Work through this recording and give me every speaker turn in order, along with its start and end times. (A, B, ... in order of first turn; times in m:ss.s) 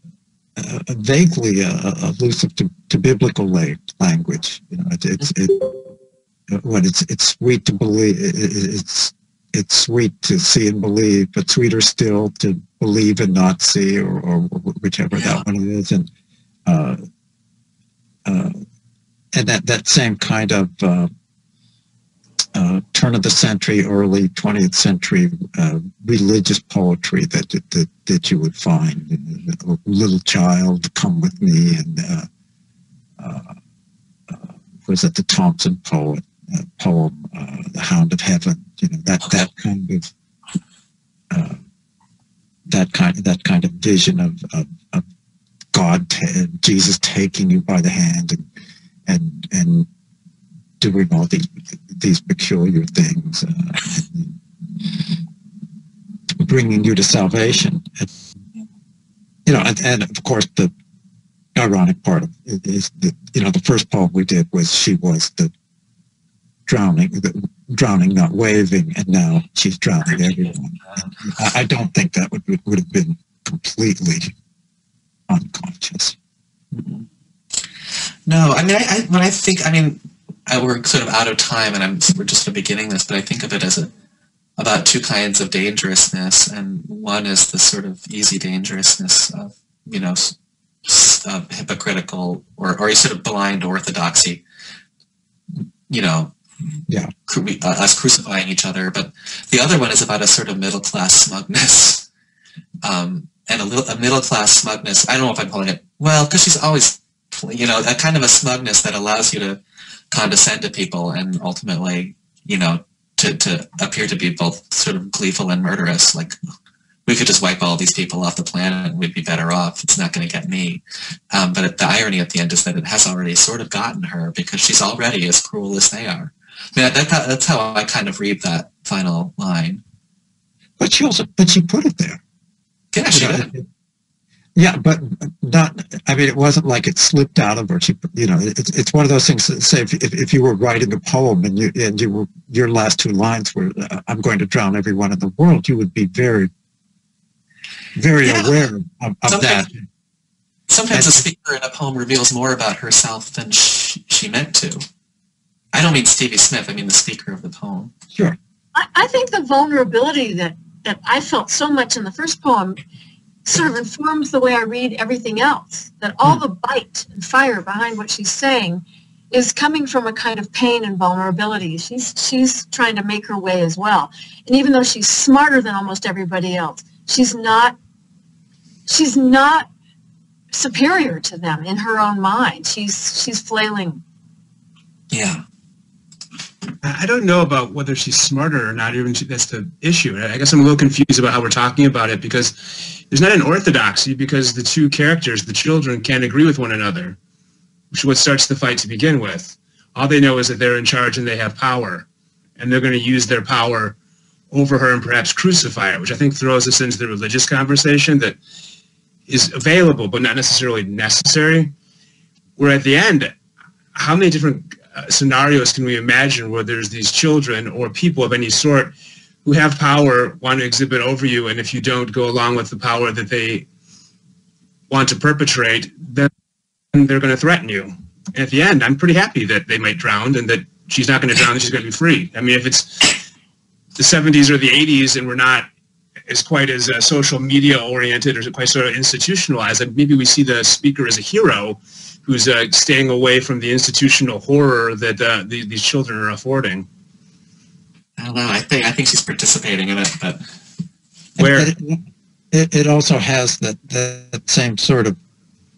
0:00.6-0:05.6 A
0:06.5-0:16.1 A
0:15.1-0:15.4 B
0:16.6-0:17.0 A
0:18.2-0:18.6 A
0:19.3-0:21.1 A
0:22.5-0:32.3 A
0:33.2-0:33.5 A
0:34.3-0:40.1 A
0:41.3-0:41.6 A
0:42.7-0:45.0 A
0:45.7-0:48.4 A
0:49.1-0:49.9 A
0:50.8-0:54.4 A
0:56.4-0:58.1 A
0:59.4-1:00.7 A
1:01.5-1:05.5 A
1:06.7-1:14.3 A
1:10.0-1:11.4 B
1:15.3-1:16.2 A
1:16.7-1:17.1 B
1:18.3-1:23.9 B
1:24.6-1:34.4 B
1:35.6-1:36.3 B
1:37.3-1:42.0 B
1:42.8-1:49.6 B
1:50.1-1:56.4 B
1:57.0-2:09.8 B
2:10.8-2:12.2 A
2:12.9-2:13.5 B
2:13.1-2:13.7 A
2:14.6-2:26.5 A
2:27.9-2:29.8 A
2:28.2-2:28.6 B
2:29.3-2:29.6 B
2:30.7-2:34.8 B
2:30.9-2:31.2 A
2:35.7-2:37.9 B
2:38.7-2:42.8 C
2:43.4-2:57.8 C
2:58.9-2:59.7 C
3:00.5-3:04.0 C
3:05.1-3:05.4 B
3:06.8-3:17.2 D
3:17.9-3:22.0 D
3:22.6-3:24.0 D
3:24.5-3:28.4 D
3:29.3-3:31.7 D
3:32.6-3:33.3 D
3:33.9-3:38.9 D
3:39.4-3:43.7 D
3:44.9-3:46.3 D
3:46.9-3:53.1 D
3:54.0-3:55.7 D
3:56.3-4:06.9 D
4:08.2-4:10.4 B
4:11.4-4:11.7 D
4:11.4-4:15.2 A